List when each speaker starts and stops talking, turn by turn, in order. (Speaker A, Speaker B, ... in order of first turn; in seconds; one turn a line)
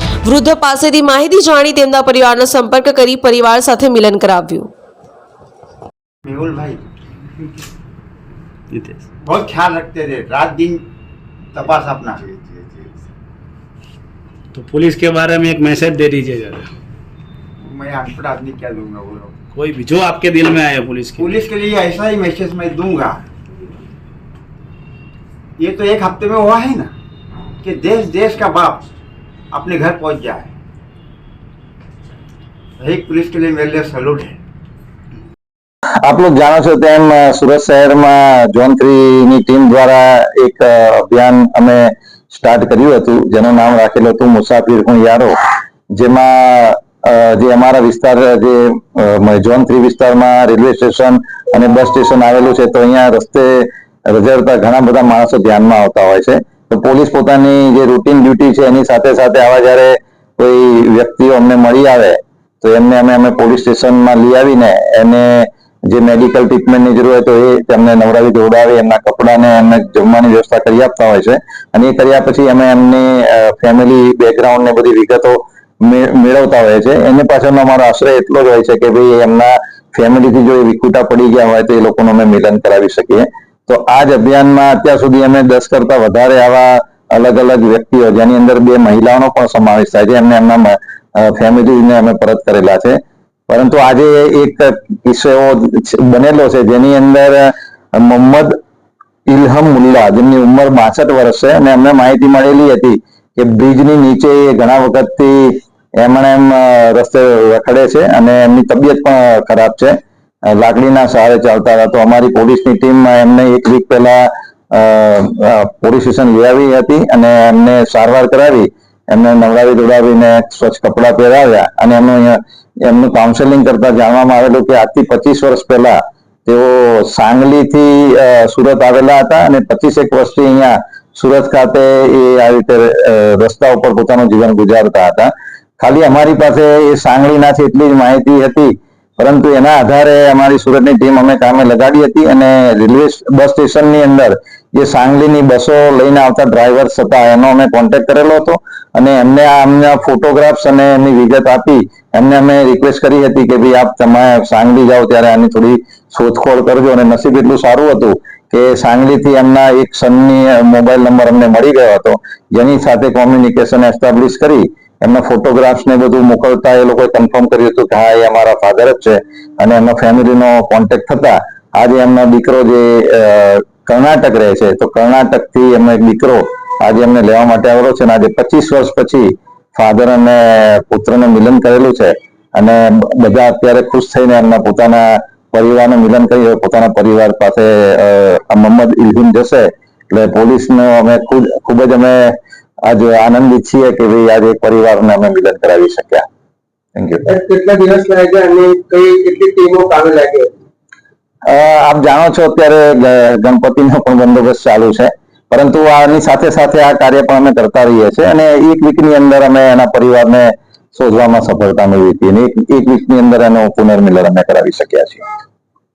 Speaker A: 0.2-4.7
Speaker B: 6.2-6.8
Speaker C: 8.7-9.0
Speaker B: 9.2-10.8
Speaker B: 11.5-12.3
Speaker C: 14.5-16.7
Speaker B: 17.6-19.3
Speaker C: 19.6-21.3
Speaker B: 21.2-23.2
Speaker B: 25.6-26.9
Speaker B: 27.6-28.9
Speaker B: 29.5-30.5
Speaker B: 32.8-34.4
Speaker D: 36.0-45.4
Speaker D: 45.9-98.6
Speaker D: 99.3-192.3
Speaker D: 192.9-196.3
Speaker D: 197.0-197.2
Speaker E: 197.3-200.5
Speaker D: 201.5-215.3